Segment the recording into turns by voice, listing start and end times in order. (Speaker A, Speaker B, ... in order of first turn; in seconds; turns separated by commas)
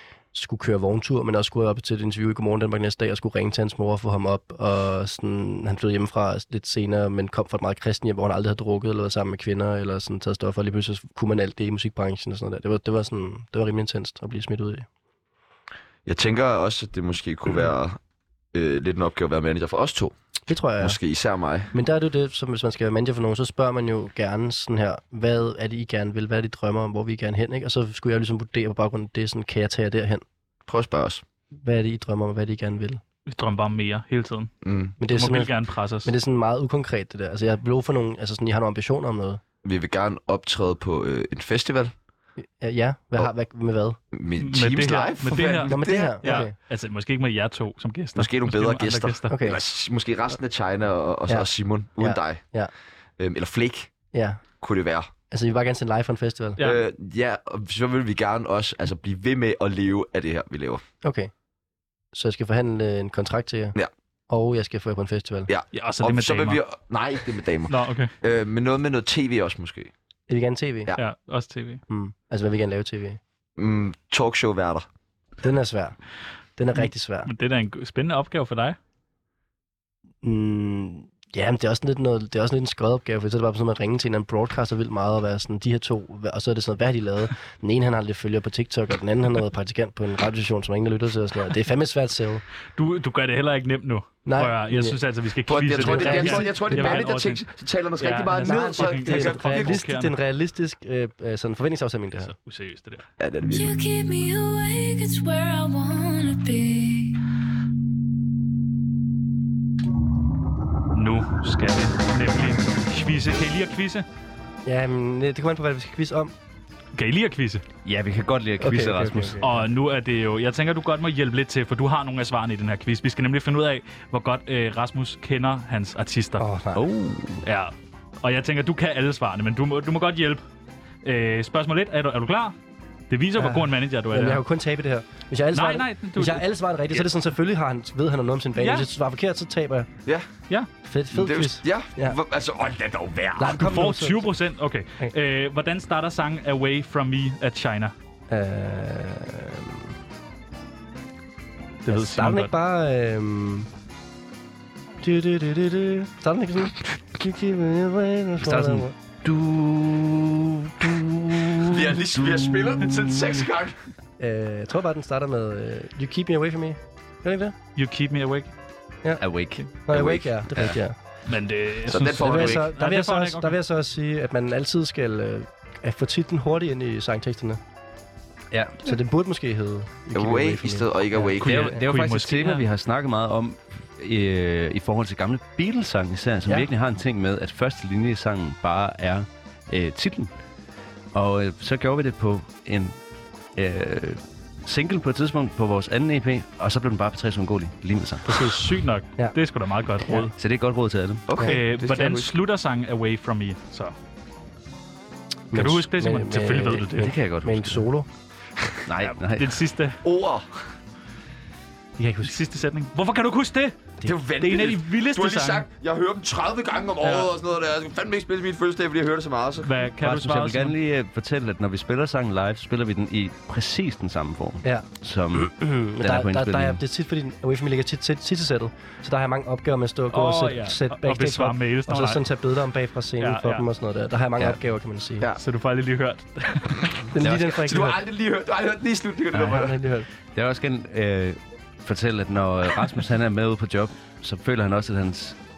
Speaker A: 0.3-14.9, Speaker B: 16.1-18.0, Speaker B: 18.5-20.1, Speaker A: 20.5-21.0, Speaker B: 20.8-21.7, Speaker A: 21.7-30.2, Speaker B: 30.7-31.2, Speaker A: 31.6-33.0, Speaker C: 33.3-36.1, Speaker B: 34.6-35.0, Speaker A: 35.0-35.5, Speaker A: 36.0-39.4, Speaker B: 39.6-41.9, Speaker A: 42.4-44.0, Speaker B: 44.1-46.5, Speaker C: 44.4-49.4, Speaker A: 45.7-46.5, Speaker B: 48.2-52.5, Speaker A: 49.3-49.6, Speaker A: 51.3-52.7, Speaker B: 53.2-53.9, Speaker A: 54.1-54.4, Speaker B: 54.6-55.1, Speaker A: 55.3-56.6, Speaker B: 56.6-60.8, Speaker A: 61.0-61.3, Speaker A: 62.1-63.8, Speaker A: 64.3-65.5, Speaker B: 65.5-69.9, Speaker C: 65.7-66.6, Speaker C: 67.7-68.1, Speaker A: 70.3-70.9, Speaker C: 71.0-71.8, Speaker A: 71.9-73.2, Speaker B: 73.6-74.9, Speaker A: 75.4-76.0, Speaker A: 76.6-77.3, Speaker C: 77.3-78.8, Speaker A: 80.2-92.4, Speaker C: 92.8-100.2, Speaker A: 94.2-95.0, Speaker B: 95.5-99.8, Speaker A: 95.8-97.0, Speaker A: 98.4-102.3, Speaker C: 102.3-103.1, Speaker B: 103.2-103.7, Speaker D: 103.4-107.2, Speaker C: 110.9-114.0, Speaker A: 114.7-116.3, Speaker C: 116.9-117.6, Speaker E: 117.8-119.4, Speaker A: 118.6-119.6, Speaker C: 119.4-126.4, Speaker A: 126.4-126.8, Speaker E: 126.7-127.5, Speaker C: 127.4-130.4, Speaker C: 131.0-132.6, Speaker C: 133.1-134.4, Speaker A: 133.4-139.9, Speaker C: 135.5-136.5, Speaker C: 138.6-138.9, Speaker A: 140.8-142.2, Speaker B: 141.1-143.8, Speaker A: 143.4-144.3, Speaker C: 143.6-147.9, Speaker A: 148.3-149.9, Speaker C: 151.8-152.5, Speaker A: 151.9-153.7, Speaker A: 155.0-158.9, Speaker E: 158.4-163.5, Speaker B: 161.6-163.8, Speaker A: 164.2-167.6, Speaker C: 167.8-168.5, Speaker A: 169.0-171.0, Speaker E: 169.2-170.8, Speaker C: 171.3-173.6, Speaker B: 171.9-172.7, Speaker A: 172.2-177.6, Speaker E: 178.5-178.8, Speaker A: 178.8-181.4, Speaker B: 180.1-181.8, Speaker C: 181.4-182.6, Speaker E: 181.4-190.3, Speaker E: 191.1-193.0, Speaker E: 193.6-198.5, Speaker A: 198.3-198.6, Speaker C: 198.4-200.3, Speaker E: 200.2-201.3, Speaker B: 201.3-202.3, Speaker C: 201.4-203.9, Speaker A: 205.5-208.1, Speaker C: 205.5-207.1, Speaker E: 207.0-207.9, Speaker E: 208.9-209.6, Speaker C: 209.0-210.0, Speaker B: 210.0-210.6, Speaker A: 212.0-212.3, Speaker C: 212.2-213.8, Speaker B: 214.1-219.7, Speaker C: 214.4-215.7, Speaker C: 217.0-217.3, Speaker C: 219.6-220.7, Speaker E: 220.0-226.8, Speaker A: 225.6-235.3, Speaker C: 230.1-232.2, Speaker C: 233.2-233.6, Speaker C: 235.4-237.0, Speaker A: 237.1-238.0, Speaker E: 237.2-237.5, Speaker B: 237.5-239.8, Speaker A: 239.3-240.1, Speaker E: 240.3-245.4